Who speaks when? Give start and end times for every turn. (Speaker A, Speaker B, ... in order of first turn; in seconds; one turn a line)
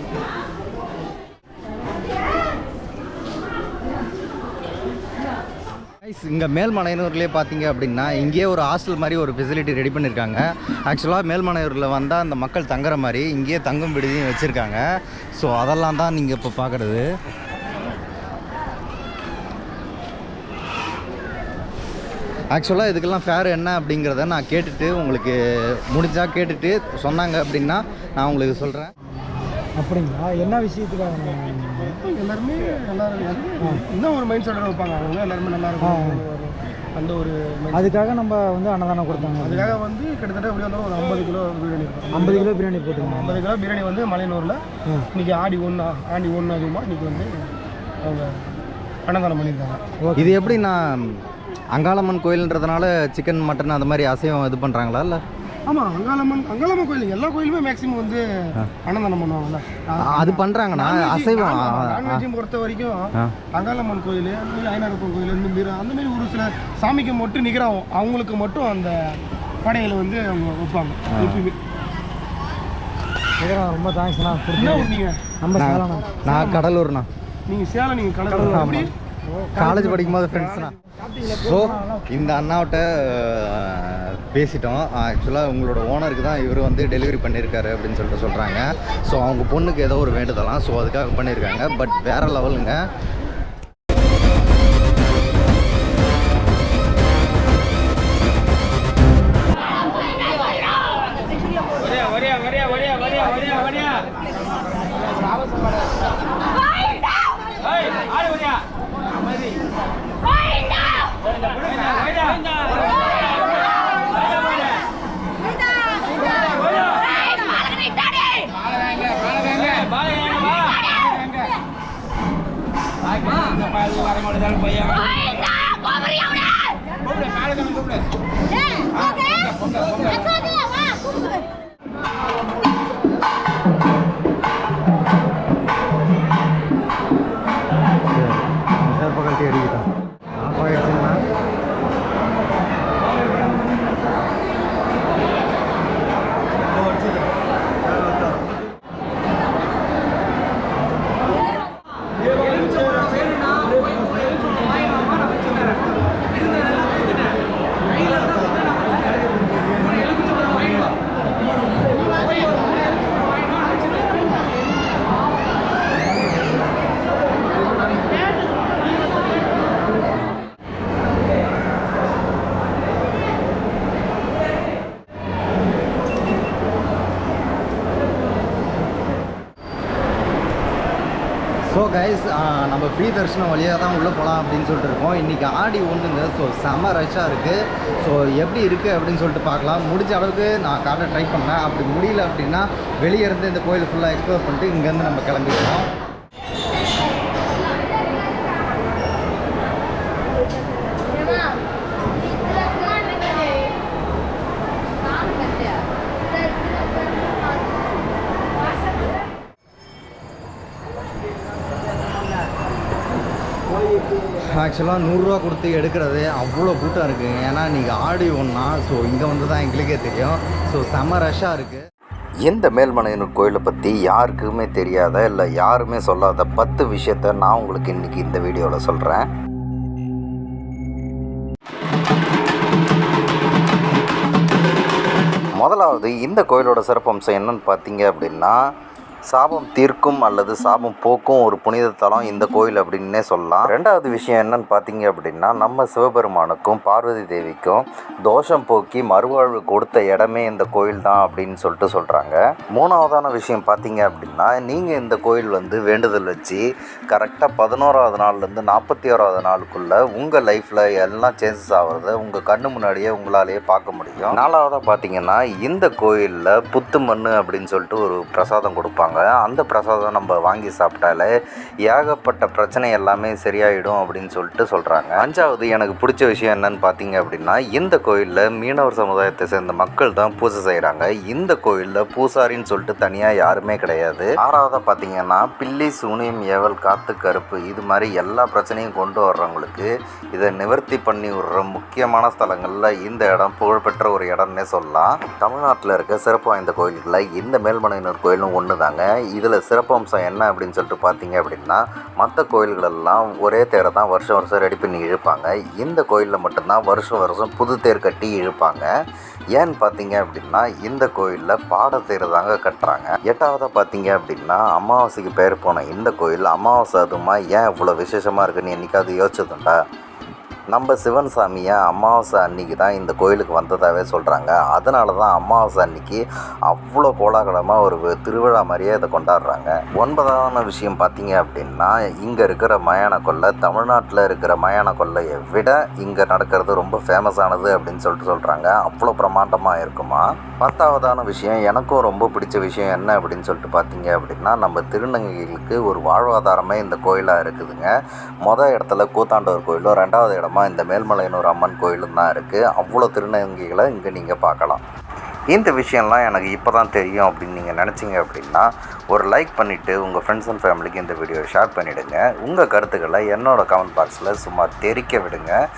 Speaker A: 6.0-14.8
Speaker A: 15.3-17.1
Speaker A: 22.5-25.4
Speaker A: 25.9-28.9
Speaker B: 29.8-31.9
Speaker C: 31.9-38.0
Speaker B: 35.8-36.2
Speaker B: 37.8-39.8
Speaker C: 39.2-44.6
Speaker B: 42.1-43.1
Speaker C: 45.1-47.5
Speaker C: 48.0-48.5
Speaker C: 49.1-49.8
Speaker B: 50.1-50.5
Speaker A: 50.1-51.2
Speaker A: 51.8-55.2
Speaker C: 55.7-71.6
Speaker A: 60.0-62.2
Speaker A: 71.1-71.5
Speaker B: 73.4-74.9
Speaker C: 74.5-75.3
Speaker B: 75.4-76.0
Speaker A: 75.6-77.1
Speaker C: 76.2-76.6
Speaker C: 77.5-78.9
Speaker A: 78.5-78.9
Speaker C: 79.6-80.7
Speaker A: 79.6-80.7
Speaker A: 81.2-92.8
Speaker A: 138.1-139.9
Speaker A: 140.4-141.2
Speaker A: 181.7-195.9
Speaker A: 214.4-221.8
Speaker D: 222.5-229.2
Speaker A: 225.4-225.9
Speaker D: 235.6-238.5
Speaker D: 239.3-271.3
Speaker D: 271.9-308.9
Speaker D: 309.6-319.7
Speaker D: 320.7-347.9
Speaker D: 348.4-354.8
Speaker D: 355.6-365.5